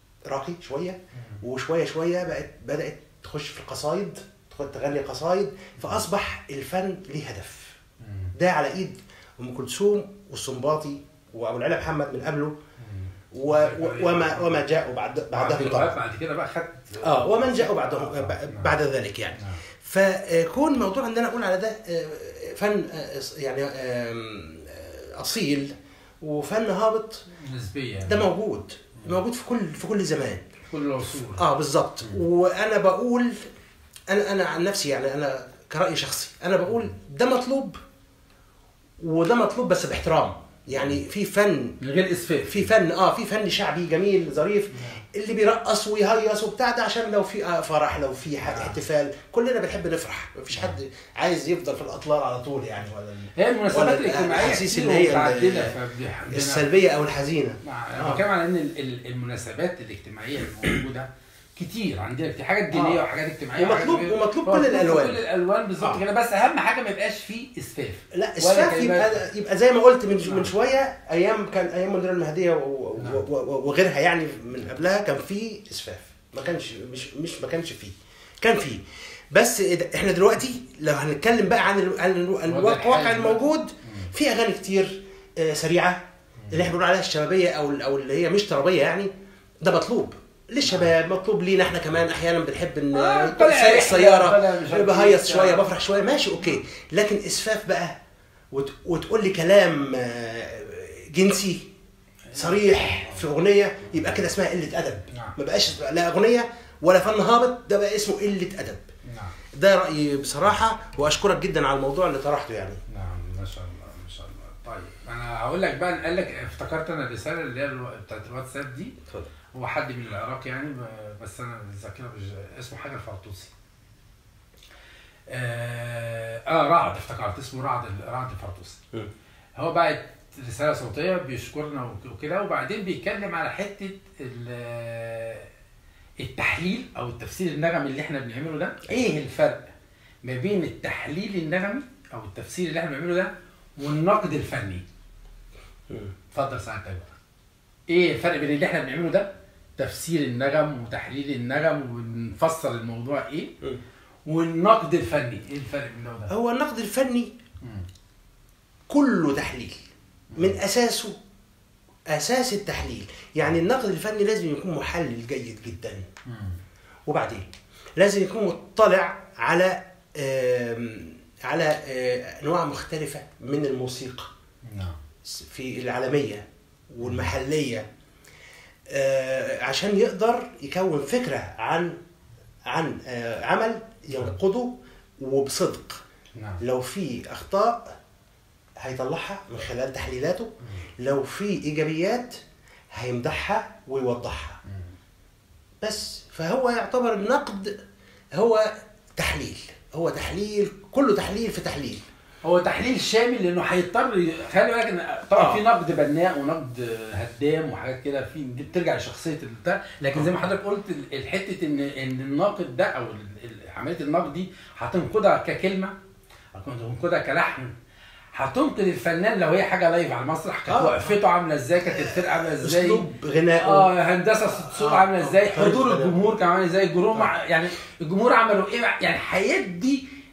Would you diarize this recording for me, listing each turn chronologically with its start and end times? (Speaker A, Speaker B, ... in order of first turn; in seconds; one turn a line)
Speaker A: 0.2-7.8
Speaker B: 8.0-8.3
Speaker A: 8.3-12.5
Speaker B: 12.8-14.6
Speaker A: 13.3-16.0
Speaker B: 15.3-18.7
Speaker A: 17.0-27.3
Speaker B: 19.3-19.6
Speaker B: 27.3-28.3
Speaker A: 28.1-30.4
Speaker B: 30.7-31.4
Speaker A: 31.2-33.4
Speaker A: 34.1-37.8
Speaker A: 39.0-41.8
Speaker B: 41.8-42.7
Speaker A: 42.4-55.8
Speaker B: 48.4-48.8
Speaker B: 53.4-56.7
Speaker A: 56.3-58.2
Speaker B: 57.6-69.2
Speaker A: 62.7-63.0
Speaker A: 63.5-65.2
Speaker A: 68.1-86.0
Speaker B: 70.2-70.5
Speaker B: 73.0-73.2
Speaker B: 82.5-84.1
Speaker B: 86.4-86.7
Speaker A: 86.5-89.1
Speaker A: 89.6-97.9
Speaker B: 92.9-95.7
Speaker A: 98.5-101.7
Speaker B: 102.3-103.2
Speaker A: 102.3-108.8
Speaker B: 109.1-109.3
Speaker A: 109.5-112.8
Speaker B: 112.9-119.0
Speaker B: 119.5-123.5
Speaker B: 125.3-128.8
Speaker B: 129.5-135.5
Speaker B: 136.2-139.7
Speaker B: 140.2-144.8
Speaker B: 146.3-147.1
Speaker B: 147.9-153.5
Speaker B: 154.2-156.3
Speaker A: 156.3-157.3
Speaker B: 157.6-157.9
Speaker A: 158.9-159.8
Speaker B: 160.3-160.6
Speaker A: 160.3-161.2
Speaker A: 162.1-166.0
Speaker B: 166.2-166.6
Speaker A: 167.1-174.3
Speaker B: 174.6-175.0
Speaker A: 175.2-177.8
Speaker A: 178.9-181.9
Speaker A: 182.7-186.0
Speaker B: 186.3-186.6
Speaker A: 186.6-187.9
Speaker A: 188.8-192.4
Speaker A: 192.9-194.6
Speaker A: 195.8-197.8
Speaker A: 198.3-202.0
Speaker B: 202.4-215.9
Speaker A: 205.3-205.6
Speaker A: 210.1-210.5
Speaker B: 216.5-217.7
Speaker B: 218.3-223.0
Speaker A: 220.7-221.2
Speaker A: 221.8-223.9
Speaker B: 223.5-230.1
Speaker A: 224.4-226.2